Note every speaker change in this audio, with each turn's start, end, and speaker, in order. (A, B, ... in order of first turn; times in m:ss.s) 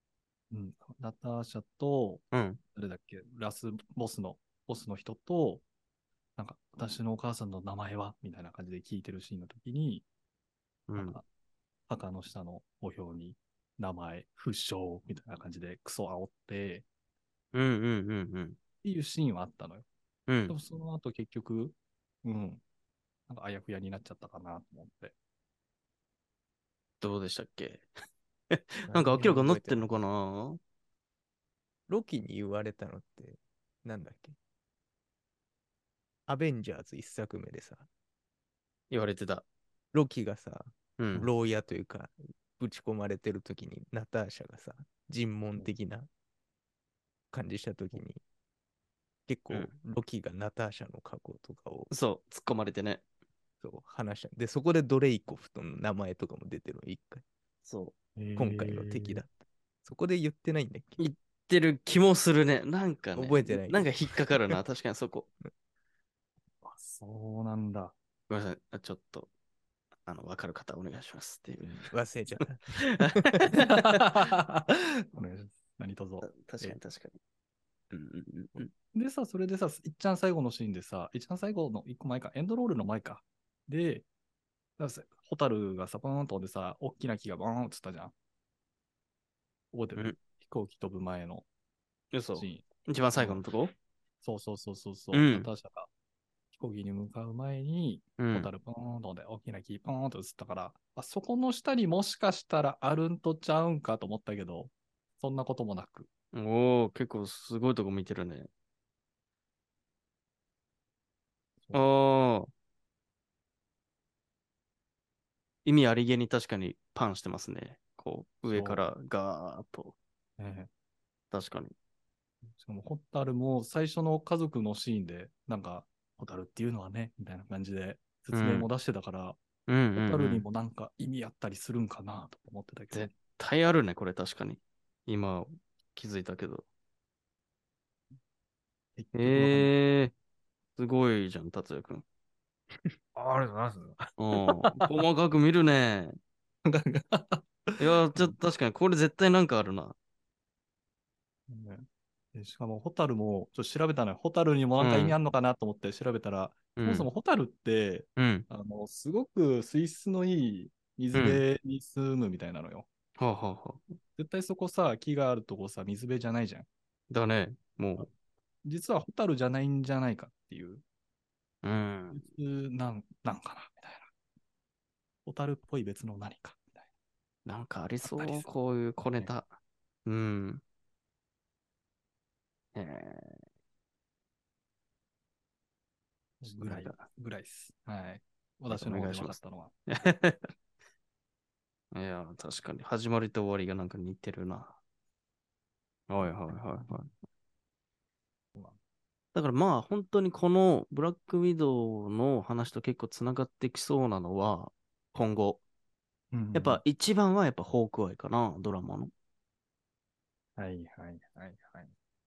0:00.5-0:02.2 A
0:02.3-0:02.6 B
0:02.7-0:05.6 A
0:06.4-0:10.0 A
0:10.9-0:11.2 B
0:11.0-0:11.2 A
0:11.9-0:16.8 A
0:17.5-0:18.6 B
0:18.8-0:19.8 A
0:20.3-0:20.5 B
0:20.5-0:22.6 A
0:23.3-0:25.1 A
0:27.0-0:27.9 B
0:28.5-0:30.6 B
0:28.9-0:29.9 C
0:31.9-0:34.3 C
0:36.3-0:37.9 C
0:38.9-0:39.4 B
0:39.9-0:46.1 C
0:41.0-0:41.3 B
0:47.3-0:48.2 C
0:49.3-0:51.9 C
0:51.9-0:53.0 B
0:53.6-0:57.2 C
0:57.6-0:57.9 B
0:58.2-0:59.2 A
0:58.4-0:59.3 C
0:59.8-1:01.0 C
1:01.0-1:05.3 B
1:03.1-1:04.6 C
1:06.6-1:07.9 A
1:08.3-1:09.3 B
1:10.0-1:11.9 B
1:11.9-1:13.4 C
1:12.8-1:14.0 B
1:13.5-1:16.8 A
1:16.2-1:17.2 B
1:17.9-1:18.7 B
1:18.6-1:24.0 A
1:24.8-1:28.1 A
1:29.7-1:31.4 A
1:32.1-1:33.7 B
1:32.3-1:33.4 A
1:34.2-1:35.9 A
1:35.1-1:35.5 B
1:36.5-1:46.1 A
1:38.2-1:38.5 B
1:46.3-1:48.5 B
1:51.7-1:52.5 B
1:55.6-2:00.0 B
1:58.4-1:58.8 A
2:00.4-2:00.7 A
2:01.3-2:01.7 B
2:02.6-2:09.4 A
2:08.3-2:08.7 B
2:09.7-2:10.4 B
2:10.0-2:13.1 A
2:12.9-2:16.6 B
2:19.0-2:19.7 A
2:19.1-2:20.1 B
2:20.8-2:22.0 B
2:23.1-2:24.9 A
2:24.2-2:26.2 B
2:26.6-2:28.3 A
2:27.8-2:29.9 B
2:31.5-2:42.9 A
2:34.8-2:35.2 B
2:36.8-2:37.1 B
2:38.2-2:38.5 B
2:41.1-2:41.4 B
2:43.2-2:43.9 B
2:44.2-2:46.7 A
2:47.1-2:48.1 B
2:48.6-2:50.8 A
2:51.6-2:52.2 B
2:52.1-2:54.1 A
2:55.2-2:56.8 A
2:57.4-2:59.5 B
2:58.0-2:58.5 A
3:00.0-3:00.6 B
3:02.7-3:03.4 B
3:06.4-3:09.7 A
3:06.6-3:07.0 B
3:08.7-3:09.4 B
3:09.9-3:10.5 B
3:11.9-3:14.8 B
3:16.1-3:17.1 B
3:16.2-3:16.9 A
3:19.3-3:25.6 B
3:26.3-3:26.8 A
3:26.5-3:29.1 B
3:30.6-3:31.9 A